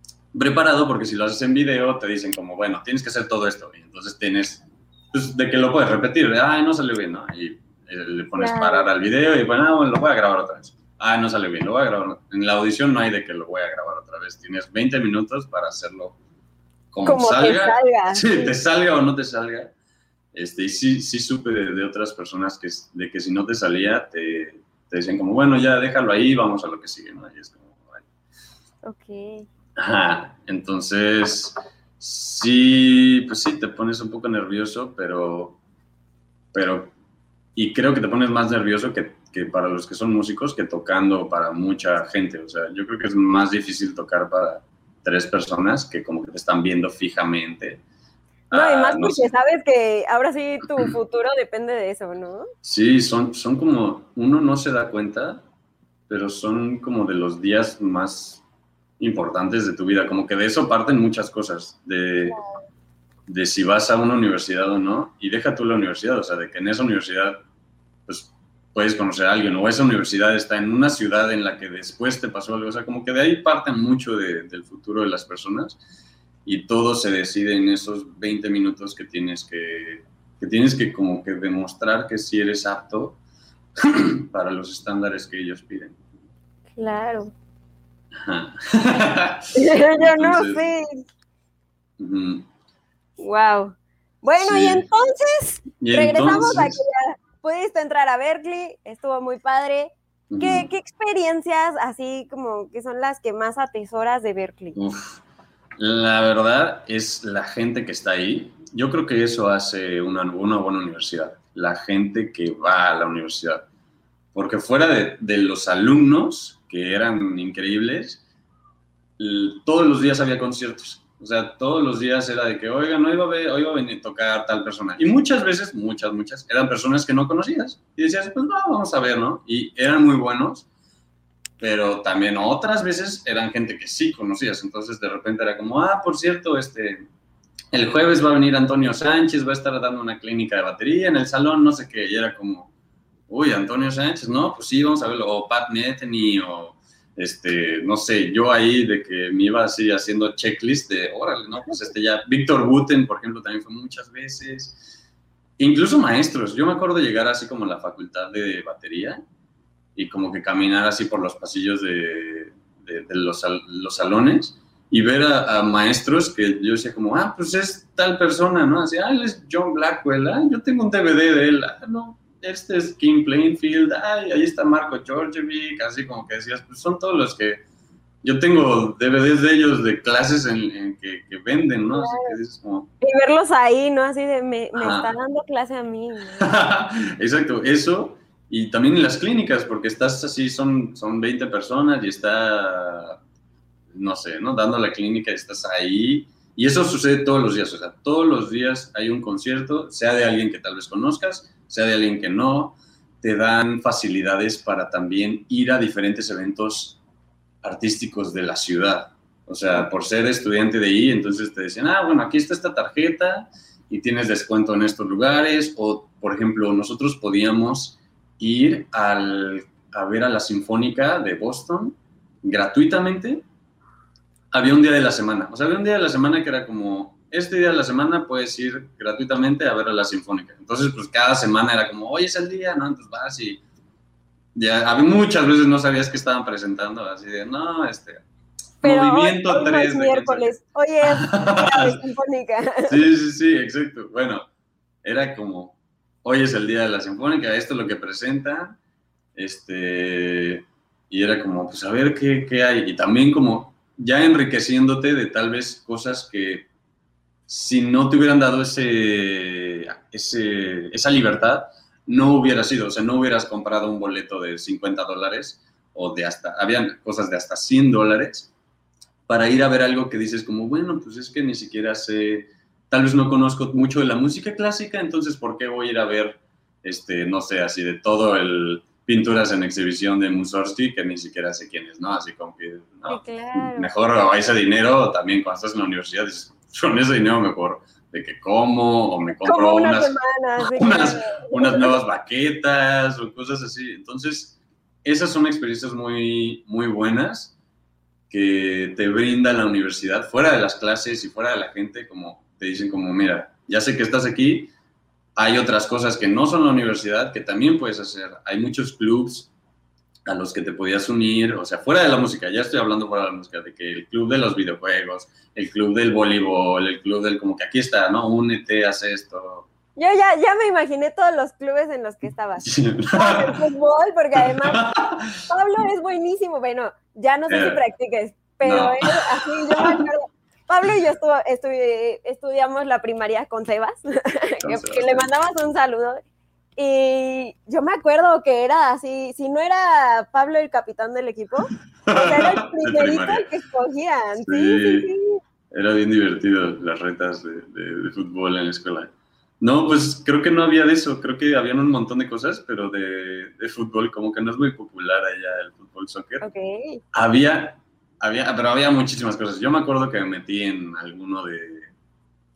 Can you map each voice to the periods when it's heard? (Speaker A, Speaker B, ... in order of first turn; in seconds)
Speaker A: 0.3-16.2, 16.9-19.7, 20.3-28.1, 29.8-35.6, 36.5-36.9, 37.5-47.8, 48.5-49.3, 52.6-55.4, 56.1-58.4, 59.0-62.4, 63.3-67.4, 68.1-75.8, 76.4-83.2, 83.8-86.0, 88.2-90.6, 92.0-92.5, 94.4-94.8, 95.8-96.8, 100.3-100.7, 104.7-105.2, 105.8-113.7, 114.3-118.2, 119.2-130.7, 131.6-137.1, 137.7-142.7, 143.3-154.8, 155.6-159.2, 159.9-177.6, 178.2-182.9, 184.7-185.1, 186.4-193.2, 193.9-207.0, 207.6-223.4, 224.5-233.6, 234.5-238.2, 238.8-242.0, 242.9-244.4, 245.0-248.8, 249.3-256.7, 257.5-268.5, 269.3-297.5, 298.3-304.7, 305.4-309.5, 310.2-319.7, 322.6-323.6, 324.4-325.4, 327.5-327.8, 328.6-330.0, 334.6-335.3, 342.0-343.5, 344.4-345.1, 345.7-356.5, 357.1-361.9
Speaker B: 8.3-8.9, 17.0-18.6, 28.8-29.5, 48.5-52.5, 86.8-87.3, 89.5-91.0, 93.2-104.8, 181.9-182.3, 183.0-186.5, 238.8-242.9, 283.1-283.9, 289.3-292.0, 319.9-324.8, 325.5-336.2, 336.8-345.4, 356.4-357.0